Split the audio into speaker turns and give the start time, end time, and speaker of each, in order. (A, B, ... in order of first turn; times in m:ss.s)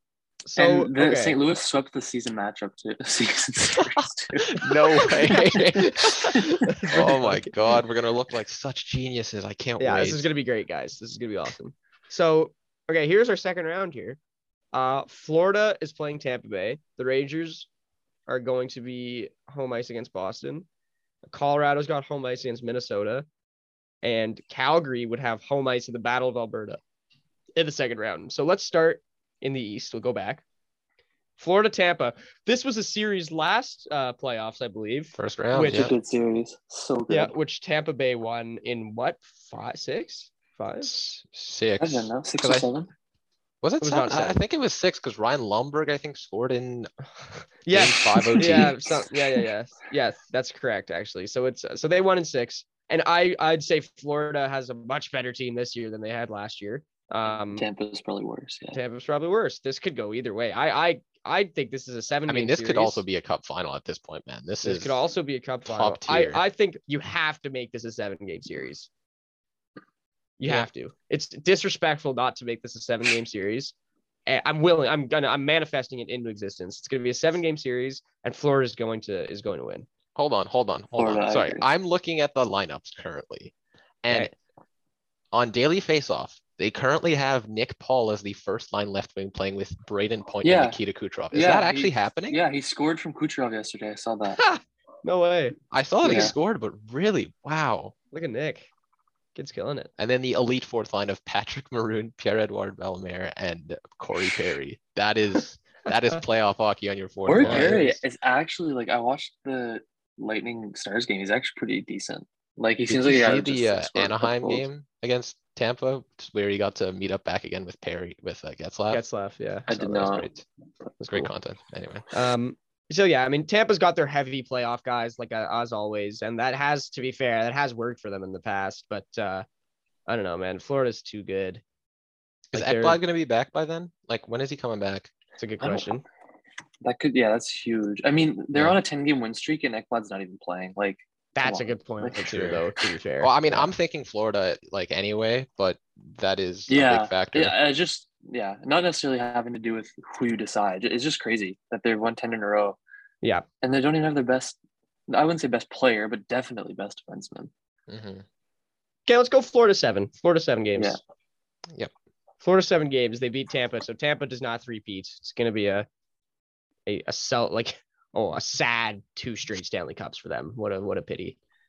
0:00.4-0:01.4 A
0:00.6-0:04.6 B
0:04.6-0:10.3 C
0:04.6-0:07.5 A
0:09.8-0:14.2 A
0:14.7-0:17.7 A
0:18.3-0:20.7 A
0:21.3-0:23.3 A
0:24.0-0:26.8 A
0:27.6-0:30.4 A
0:31.4-0:35.9 A
0:35.1-0:35.9 C
0:35.6-0:37.3 B
0:37.1-0:41.0 A
0:40.8-0:42.7 C
0:41.8-0:42.9 B
0:43.6-0:46.9 C
0:43.8-0:44.4 A
0:47.6-0:57.6 A
0:47.7-0:48.8 C
0:48.4-0:48.7 B
0:57.5-0:58.8 B
0:58.7-1:03.0 A
1:02.3-1:05.0 C
1:04.6-1:08.9 A
1:05.7-1:06.4 C
1:10.4-1:13.7 A
1:14.3-1:19.9 A
1:20.2-1:23.5 C
1:21.0-1:21.7 B
1:24.0-1:24.3 C
1:24.1-1:24.3 A
1:25.3-1:32.4 C
1:30.4-1:30.8 B
1:31.3-1:34.4 B
1:34.4-1:36.3 A
1:35.7-1:37.9 C
1:36.0-1:36.3 B
1:38.1-1:38.7 A
1:39.4-1:39.9 A
1:40.0-1:47.9 C
1:47.3-1:54.6 B
1:47.3-1:48.0 A
1:52.9-1:59.0 C
1:58.9-2:00.2 A
1:59.7-2:00.3 B
2:00.0-2:00.4 C
2:01.0-2:02.1 C
2:02.1-2:09.5 A
2:10.1-2:11.6 A
2:12.5-2:13.0 A
2:12.5-2:15.1 C
2:15.4-2:16.0 A
2:15.6-2:15.9 B
2:16.8-2:22.6 B
2:21.4-2:23.7 A
2:22.3-2:22.6 C
2:23.2-2:27.5 C
2:26.7-2:32.8 B
2:33.6-2:34.6 B
2:35.1-2:37.5 B
2:37.9-2:38.2 C
2:39.1-2:41.0 A
2:42.4-2:45.9 A
2:46.9-2:51.4 A